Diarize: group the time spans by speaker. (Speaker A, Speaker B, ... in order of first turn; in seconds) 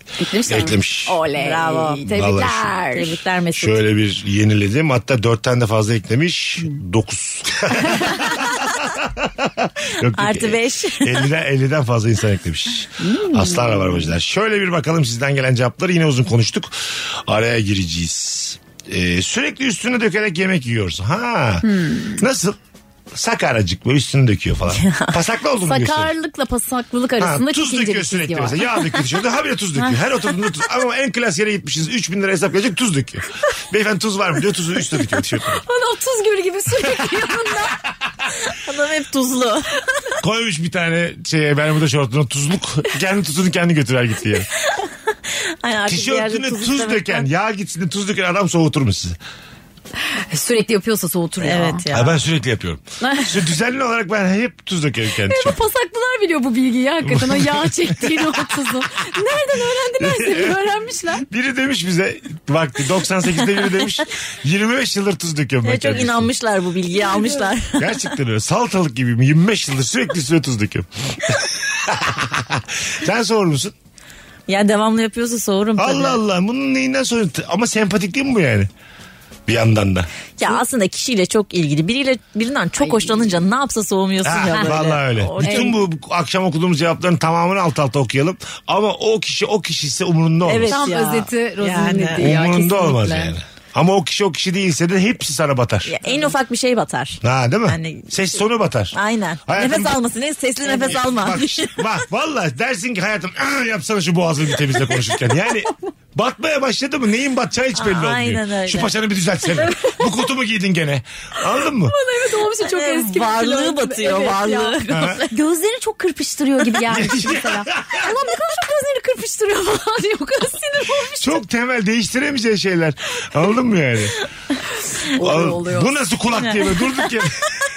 Speaker A: 0.2-3.2, 13.0-14.0, 21.6-22.2, 25.7-28.6, 35.5-37.8, 50.1-51.8, 53.0-53.4, 55.3-61.2, 82.8-83.3, 85.4-85.7, 90.7-93.3, 111.8-121.4, 125.0-126.0
Speaker B: 0.5-1.2, 2.1-2.7, 3.5-22.6, 23.1-26.1, 27.2-35.6, 36.8-37.6, 40.2-44.5, 45.9-49.2, 51.9-55.6, 57.0-58.7, 60.0-66.3, 67.8-73.7, 75.8-78.7, 79.5-80.1, 84.2-90.8, 92.2-95.9, 97.2-99.0, 99.5-100.0, 100.7-112.0, 114.9-115.2, 116.8-118.1, 121.2-124.2, 125.2-127.4
Speaker C: 1.4-2.1, 2.9-3.8, 10.1-11.3, 24.7-25.1, 38.5-39.8, 44.6-47.3, 51.4-52.2, 65.6-68.0, 74.5-76.2, 80.4-85.8, 90.5-92.2, 95.9-98.2, 98.9-101.8, 107.8-109.0, 112.6-115.3, 126.4-127.0